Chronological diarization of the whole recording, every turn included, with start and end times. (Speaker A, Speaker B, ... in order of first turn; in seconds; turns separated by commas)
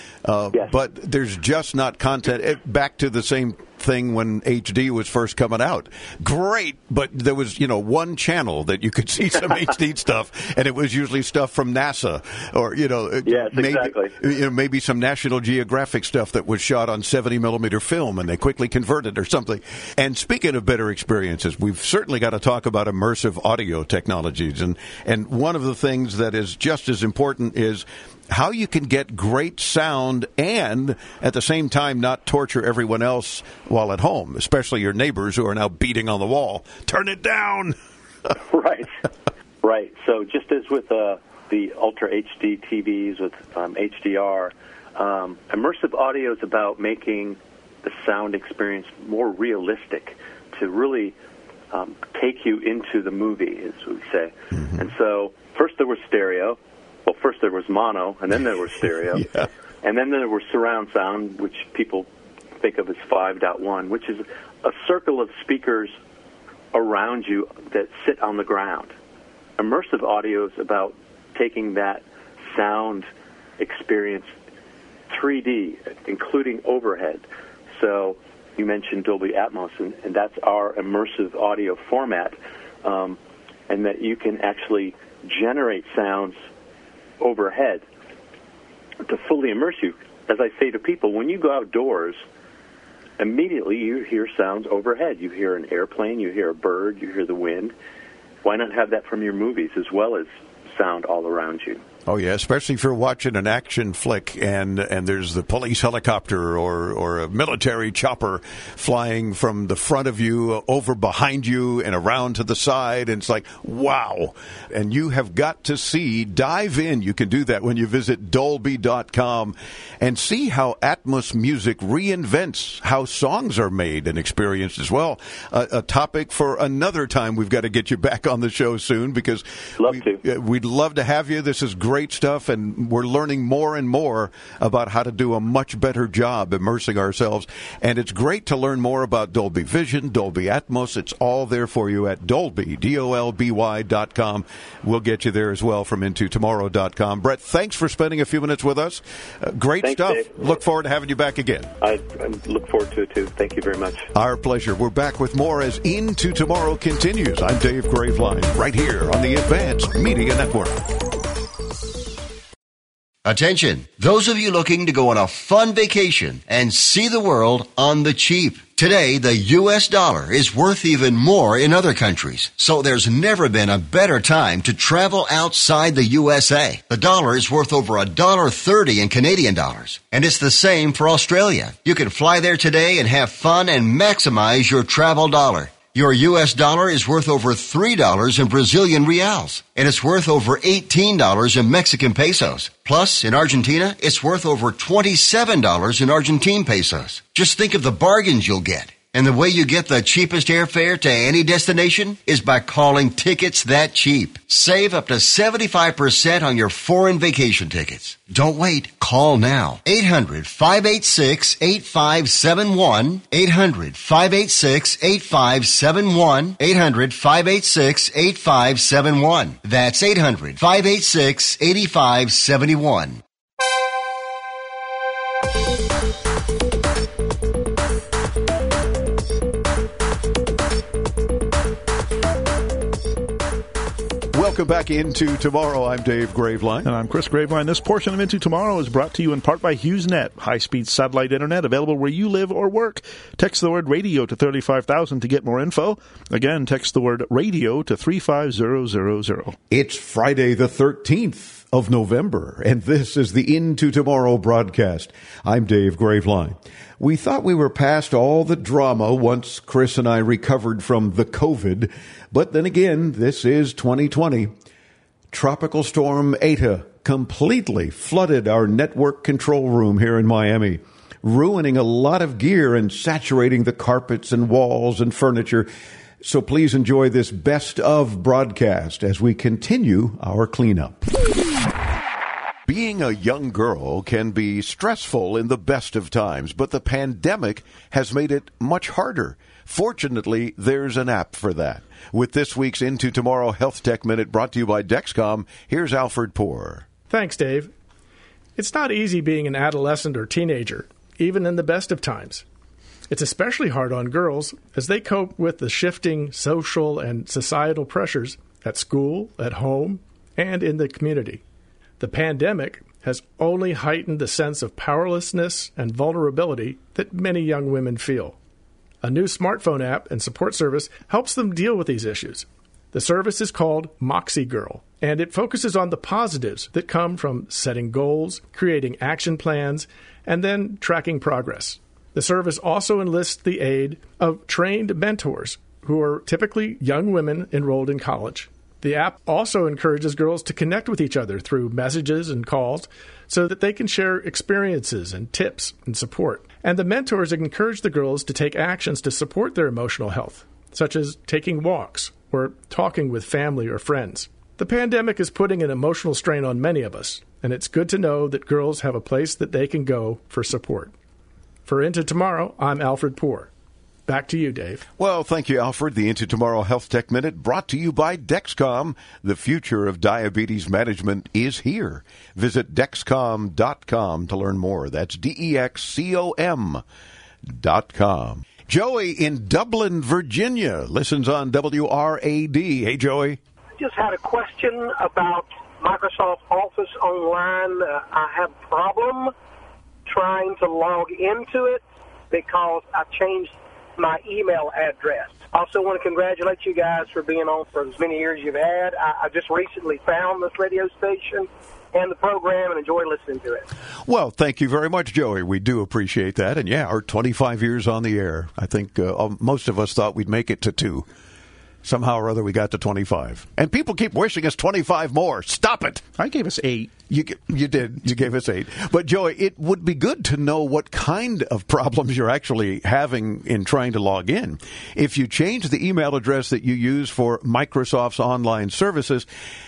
Speaker A: 0.2-37.8, Speaker B: 13.2-14.1, Speaker B: 38.5-38.9, Speaker B: 39.6-51.1, Speaker B: 51.7-59.2, Speaker A: 54.5-54.9, Speaker A: 59.1-59.5, Speaker B: 59.8-66.0, Speaker B: 66.7-68.9, Speaker B: 69.6-73.1, Speaker B: 73.6-74.3, Speaker B: 75.1-86.4, Speaker B: 87.2-87.8, Speaker B: 89.0-92.2, Speaker B: 93.2-97.7, Speaker B: 98.4-101.8, Speaker A: 102.0-151.7, Speaker B: 129.8-130.2, Speaker B: 149.8-150.5, Speaker B: 151.8-154.1, Speaker A: 154.1-160.8, Speaker C: 163.2-223.2, Speaker A: 234.3-236.9, Speaker D: 236.8-249.6, Speaker A: 249.7-264.5, Speaker A: 265.3-275.7, Speaker A: 276.2-281.1, Speaker A: 282.7-296.9, Speaker E: 297.1-297.7, Speaker E: 298.6-302.4, Speaker E: 303.1-311.4, Speaker E: 312.0-318.4, Speaker E: 319.0-360.9, Speaker E: 361.6-363.5, Speaker E: 364.1-364.9, Speaker A: 365.0-376.8, Speaker A: 377.5-383.4, Speaker F: 383.8-389.3, Speaker F: 390.1-403.7, Speaker A: 404.0-411.1, Speaker A: 411.8-416.1, Speaker D: 416.2-416.9, Speaker A: 417.1-429.2